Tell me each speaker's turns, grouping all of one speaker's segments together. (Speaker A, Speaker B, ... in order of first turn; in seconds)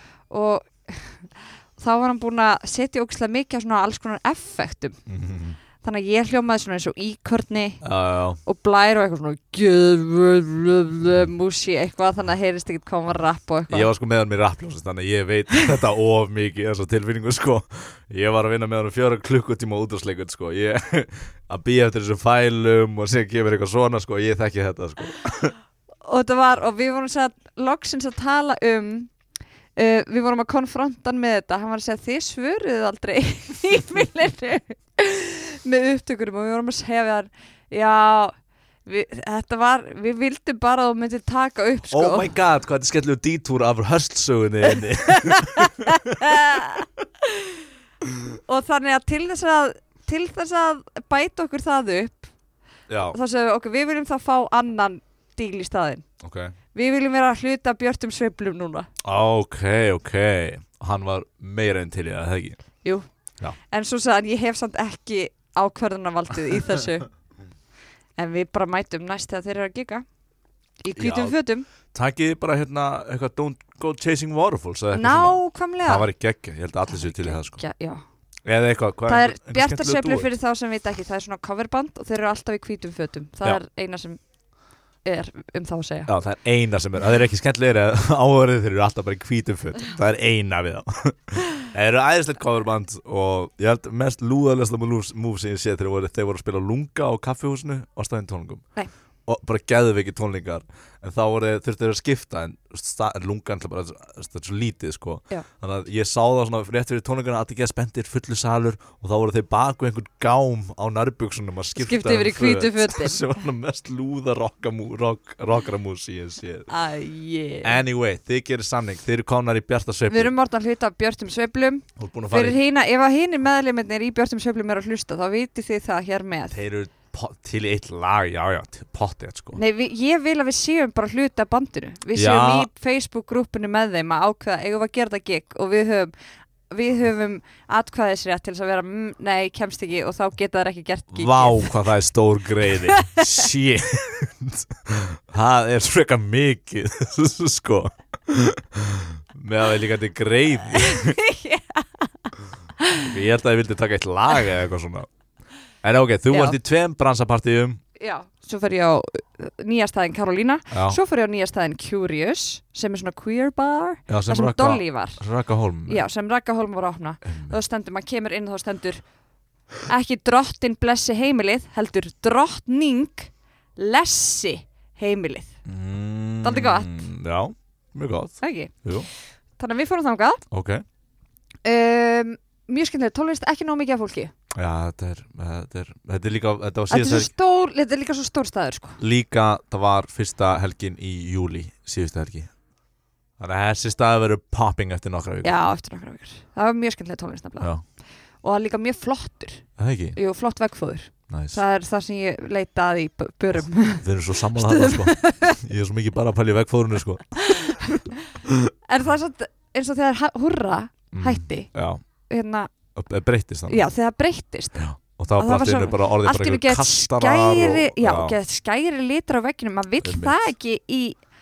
Speaker A: 0.3-5.0, 5.8-7.8, 8.4-13.9, 26.0-29.1, 29.8-38.3, 38.8-42.3, 45.0-47.5, 48.5-52.3, 53.1-56.0, 56.7-58.9, 63.7-67.1, 68.2-70.0, 70.8-71.7, 74.9-76.1, 76.9-78.0, 79.1-84.2, 85.0-86.1, 111.8-113.2, 116.7-117.8, 120.1-126.6, 129.5-136.1, 136.7-141.7, 142.8-143.5, 150.8-153.1, 156.3-156.6, 158.0-165.2, 165.9-169.0, 169.9-175.5, 176.4-177.0, 178.4-178.7, 179.6-180.4, 181.6-184.3, 186.9-189.0, 195.4-197.7, 198.4-205.6, 207.4-208.2, 208.9-211.7, 212.3-212.7, 213.7-221.2
Speaker B: 5.1-5.6, 7.8-8.4, 13.7-25.5, 41.9-46.5, 52.9-53.2, 56.2-56.5, 59.0-62.6, 70.9-71.4, 71.9-77.6, 78.5-80.3, 86.1-98.6, 99.2-116.7, 117.6-120.3, 122.0-122.6, 126.5-129.6, 132.1-132.7, 141.1-151.2, 153.0-155.1, 155.8-157.8, 160.7-161.0, 164.1-166.0, 167.3-167.6, 175.6-179.1, 180.5-180.8, 184.5-187.3, 189.0-192.5, 193.4-195.5, 199.8-200.2, 201.3-201.6, 204.0-207.8, 208.4-208.7, 211.1-212.0, 212.9-213.8, 214.8-218.4, 220.0-220.3